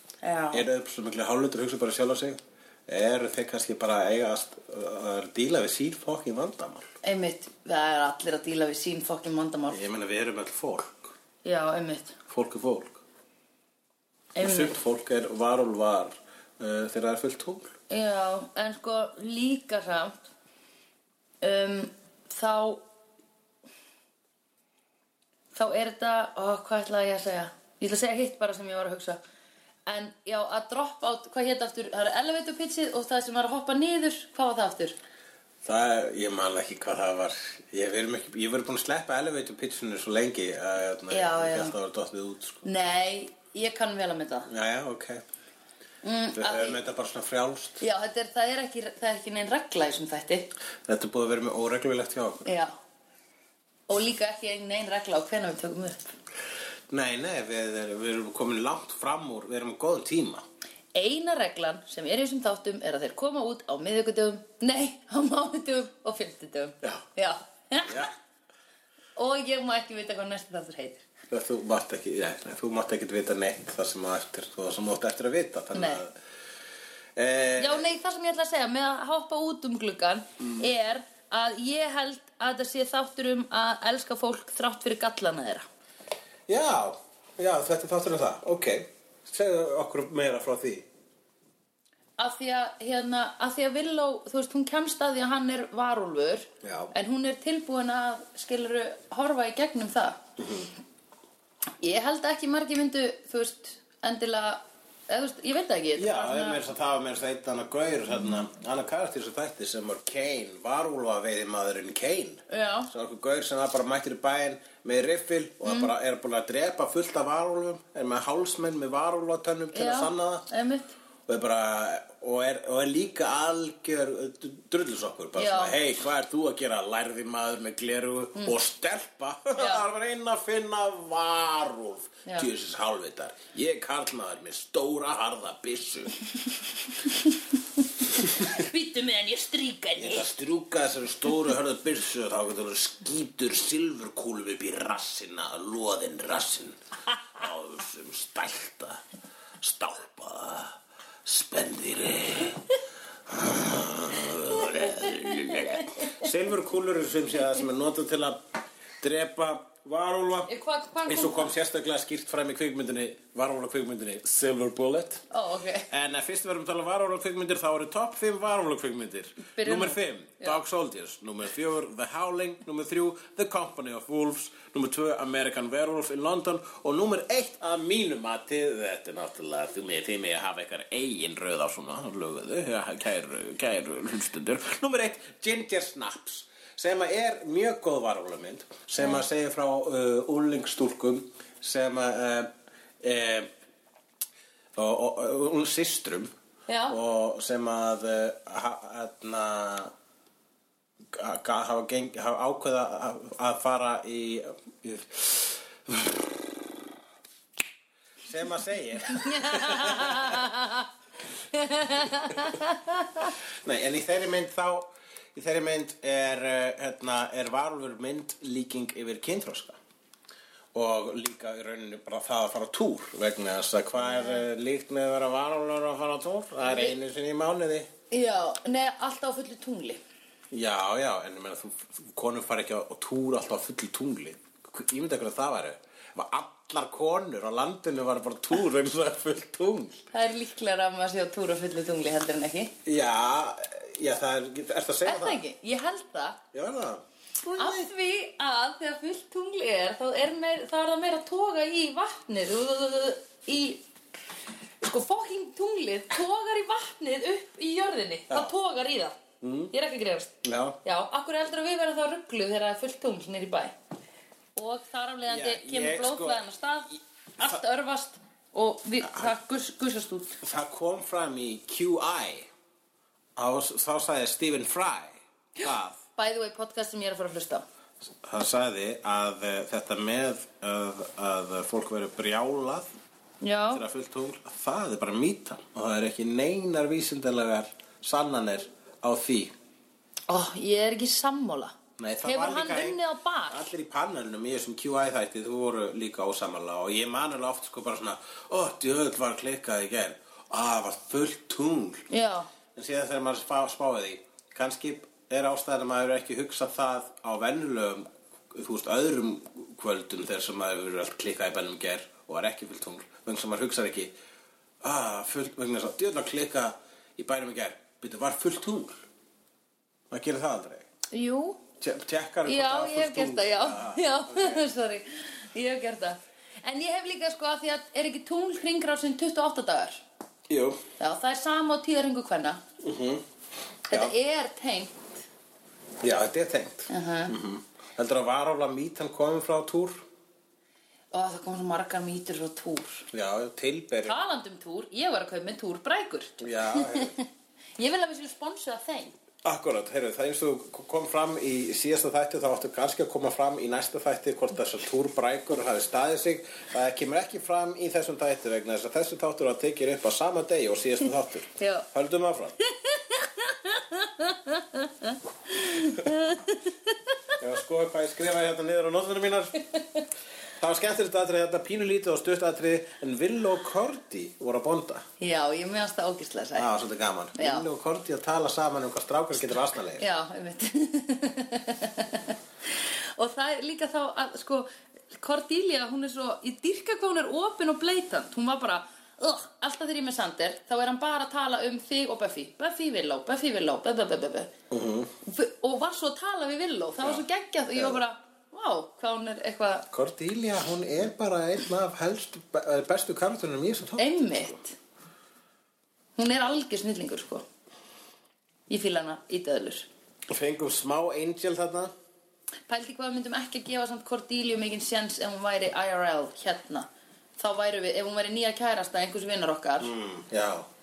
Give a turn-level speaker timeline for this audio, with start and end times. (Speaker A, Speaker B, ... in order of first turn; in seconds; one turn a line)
Speaker A: 0.2-0.7
Speaker B: 0.5-6.8
Speaker A: 7.0-9.8
Speaker B: 9.7-11.1
Speaker A: 11.4-12.2
Speaker B: 12.3-13.0
Speaker A: 14.3-14.8
Speaker B: 14.4-17.7
Speaker A: 17.9-20.1
Speaker A: 21.4-22.8
Speaker A: 25.5-29.2
Speaker A: 29.9-35.0
Speaker B: 35.6-42.6
Speaker A: 41.1-41.8
Speaker A: 42.6-44.5
Speaker B: 44.5-45.2
Speaker A: 46.0-46.8
Speaker B: 46.3-47.8
Speaker A: 47.8-50.5
Speaker B: 50.9-52.5
Speaker A: 52.4-52.7
Speaker A: 53.9-56.1
Speaker B: 56.9-60.4
Speaker A: 60.9-68.1
Speaker B: 67.8-68.1
Speaker A: 69.2-71.0
Speaker B: 71.3-76.1
Speaker A: 75.7-76.0
Speaker B: 77.2-77.8
Speaker A: 77.6-85.7
Speaker B: 86.5-90.8
Speaker A: 92.2-100.2
Speaker B: 96.6-96.9
Speaker B: 100.4-100.7
Speaker A: 101.8-106.6
Speaker B: 106.0-120.5
Speaker A: 112.5-112.9
Speaker A: 115.6-115.9
Speaker A: 119.7-120.9
Speaker B: 121.3-136.2
Speaker A: 125.3-125.7
Speaker A: 129.6-129.8
Speaker A: 138.4-140.3
Speaker B: 140.0-146.8
Speaker B: 147.3-149.0
Speaker B: 149.6-152.6
Speaker B: 153.3-158.4
Speaker A: 155.9-156.2
Speaker B: 159.0-160.5
Speaker A: 160.5-161.5
Speaker B: 161.1-165.2
Speaker A: 165.3-165.9
Speaker B: 165.9-192.5
Speaker A: 169.5-170.6
Speaker B: 193.0-193.5
Speaker B: 194.8-196.3
Speaker A: 196.7-197.0
Speaker B: 196.9-199.9
Speaker B: 201.1-206.6
Speaker B: 208.2-210.5
Speaker A: 209.1-210.9
Speaker A: 211.5-213.3
Speaker B: 213.6-219.8
Speaker B: 220.7-227.9
Speaker A: 224.0-224.4
Speaker A: 226.6-226.9
Speaker A: 228.1-230.0
Speaker B: 230.5-240.0
Speaker A: 240.1-242.7
Speaker B: 242.8-245.4
Speaker A: 245.1-246.4
Speaker B: 246.5-247.9
Speaker A: 247.5-253.8
Speaker A: 254.8-259.2
Speaker B: 259.4-259.7
Speaker A: 259.7-263.7
Speaker B: 260.4-260.8
Speaker A: 264.6-270.4
Speaker B: 265.3-266.4
Speaker B: 269.0-269.3
Speaker B: 270.4-272.5
Speaker B: 273.4-276.0
Speaker A: 276.2-277.6
Speaker B: 278.2-282.9
Speaker A: 283.4-283.8
Speaker B: 283.7-289.5
Speaker A: 290.3-293.7
Speaker B: 292.0-302.1
Speaker A: 302.1-302.5
Speaker B: 302.7-314.1
Speaker B: 314.8-319.0
Speaker B: 320.1-320.9
Speaker A: 321.1-321.6
Speaker B: 321.8-324.6
Speaker A: 322.4-330.0
Speaker B: 330.5-330.8
Speaker A: 331.0-332.6
Speaker B: 332.8-333.2
Speaker A: 333.9-335.2
Speaker B: 336.0-340.0
Speaker A: 336.9-337.3
Speaker A: 341.1-343.1
Speaker B: 343.1-344.2
Speaker A: 344.1-347.3
Speaker B: 346.4-347.1
Speaker A: 347.8-349.1
Speaker B: 349.4-362.6
Speaker A: 361.6-361.9
Speaker A: 362.7-367.3
Speaker B: 367.4-369.6
Speaker A: 369.7-370.0
Speaker B: 370.6-375.1
Speaker A: 375.2-376.7
Speaker B: 376.6-380.1
Speaker A: 377.3-377.7
Speaker A: 380.0-394.5
Speaker B: 394.7-395.1
Speaker A: 395.2-399.9
Speaker B: 397.7-398.0
Speaker B: 399.9-404.5
Speaker A: 404.0-404.8
Speaker A: 406.2-407.4
Speaker A: 408.7-409.9
Speaker B: 410.3-411.9
Speaker A: 412.7-419.9
Speaker B: 419.8-420.7